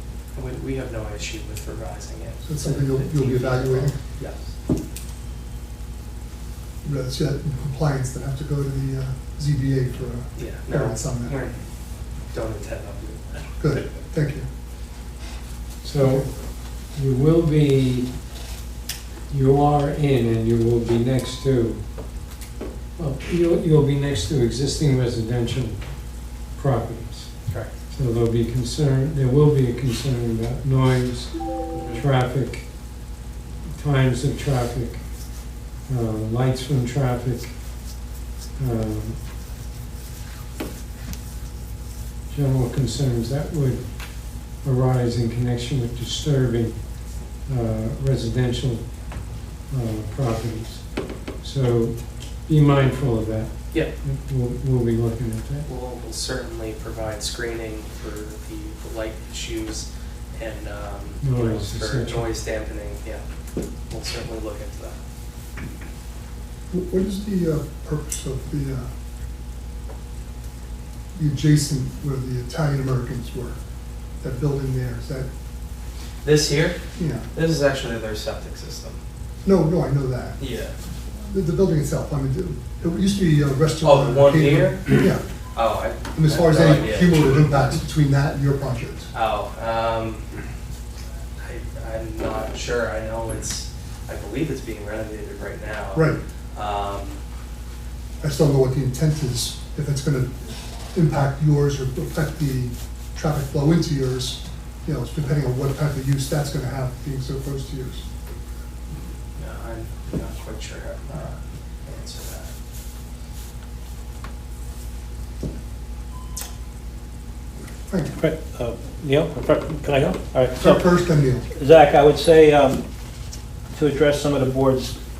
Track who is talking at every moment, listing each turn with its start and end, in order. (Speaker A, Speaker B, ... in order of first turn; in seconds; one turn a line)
Speaker A: 0.3-4.5
Speaker B: 2.4-4.0
Speaker B: 6.8-11.3
Speaker A: 10.3-11.6
Speaker A: 12.3-13.4
Speaker B: 13.6-14.4
Speaker C: 15.8-18.1
Speaker B: 16.0-16.2
Speaker C: 19.3-21.9
Speaker C: 22.9-27.3
Speaker C: 27.9-32.7
Speaker A: 31.7-32.0
Speaker C: 33.8-37.6
Speaker C: 38.6-39.2
Speaker C: 42.3-49.0
Speaker C: 49.7-55.7
Speaker A: 55.6-63.2
Speaker C: 61.2-62.2
Speaker A: 63.9-65.0
Speaker B: 66.7-68.9
Speaker B: 71.1-73.6
Speaker B: 74.2-75.3
Speaker A: 76.2-76.8
Speaker B: 77.0-77.3
Speaker A: 77.3-79.0
Speaker B: 79.4-80.4
Speaker A: 80.4-80.7
Speaker B: 81.3-85.2
Speaker A: 83.8-87.6
Speaker B: 86.1-89.1
Speaker A: 89.1-90.3
Speaker A: 91.4-97.2
Speaker B: 95.9-96.2
Speaker B: 98.2-108.0
Speaker A: 109.3-112.5
Speaker B: 117.9-118.1
Speaker D: 118.2-120.8
Speaker B: 120.6-121.5
Speaker D: 121.5-122.8
Speaker D: 123.7-125.0